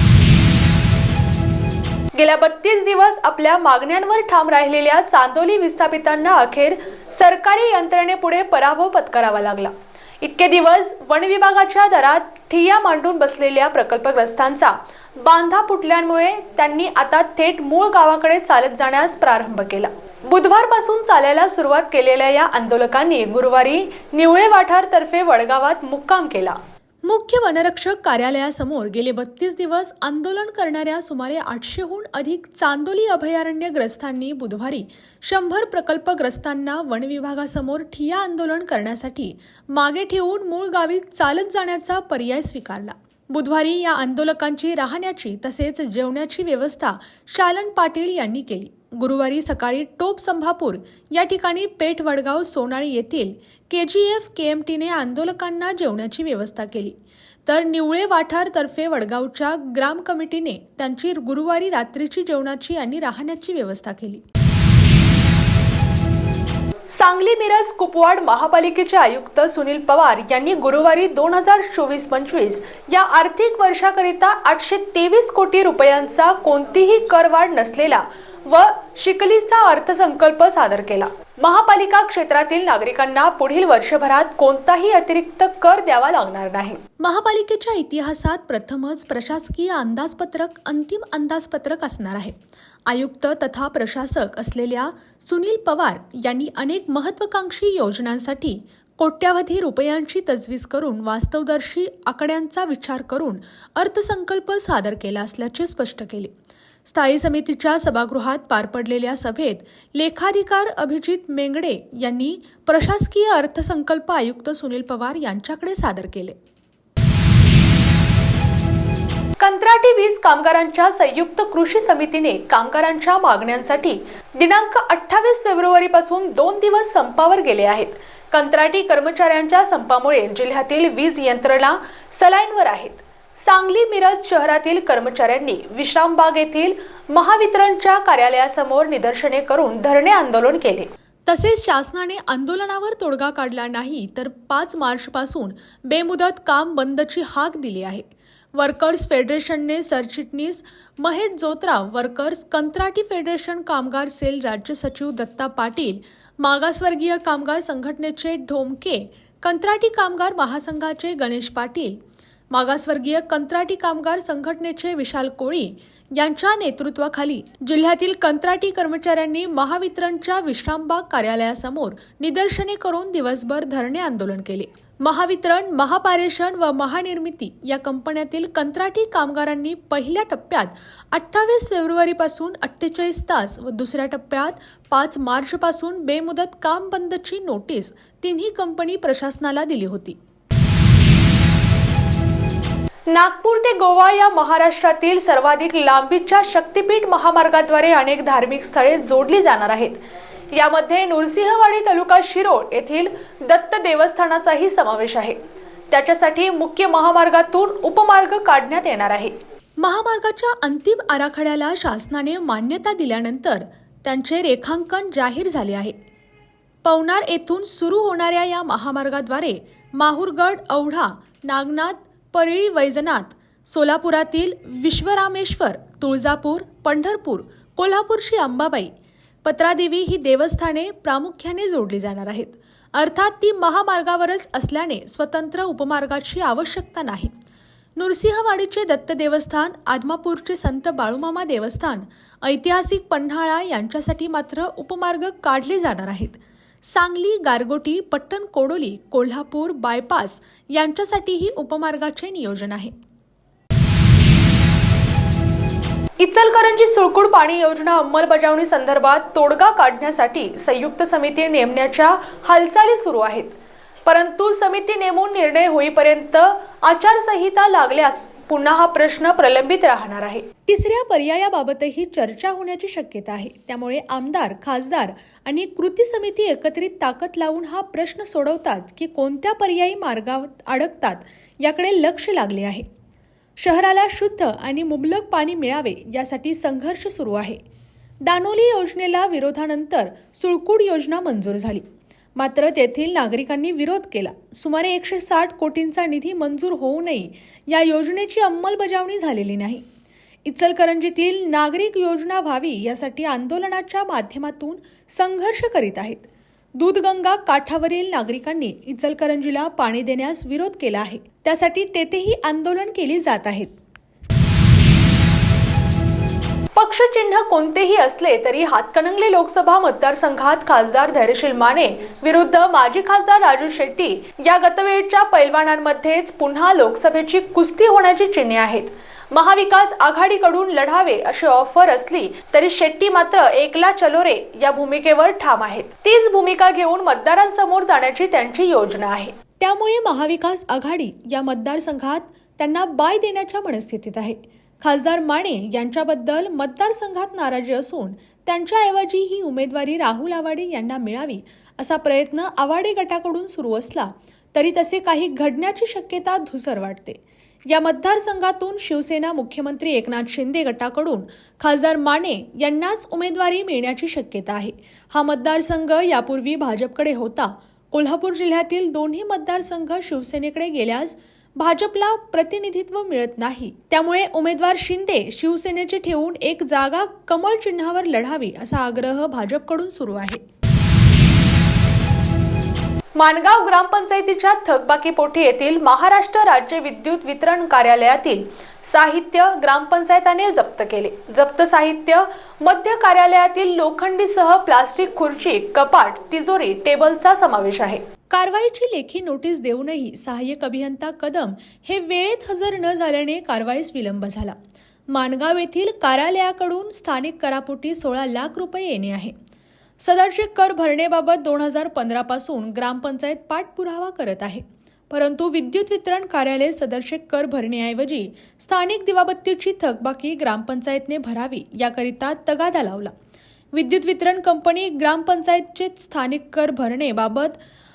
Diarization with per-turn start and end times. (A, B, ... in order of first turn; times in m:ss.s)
0:02.2-1:04.2 A
1:06.9-1:32.4 A
1:32.9-1:46.3 A
1:46.8-1:56.4 A
1:59.4-2:42.0 A
2:42.5-3:10.2 A
3:13.1-3:20.0 A
3:20.5-3:36.0 A
3:36.8-3:48.9 A
3:49.4-3:57.3 A
3:58.0-4:13.0 A
4:16.2-4:42.8 A
4:43.6-4:47.6 A
4:48.2-4:59.8 A
5:00.5-5:13.7 A
5:16.8-6:20.4 A
6:23.2-6:44.6 A
6:45.1-6:49.4 A
6:50.0-7:03.1 A
7:03.7-7:07.6 A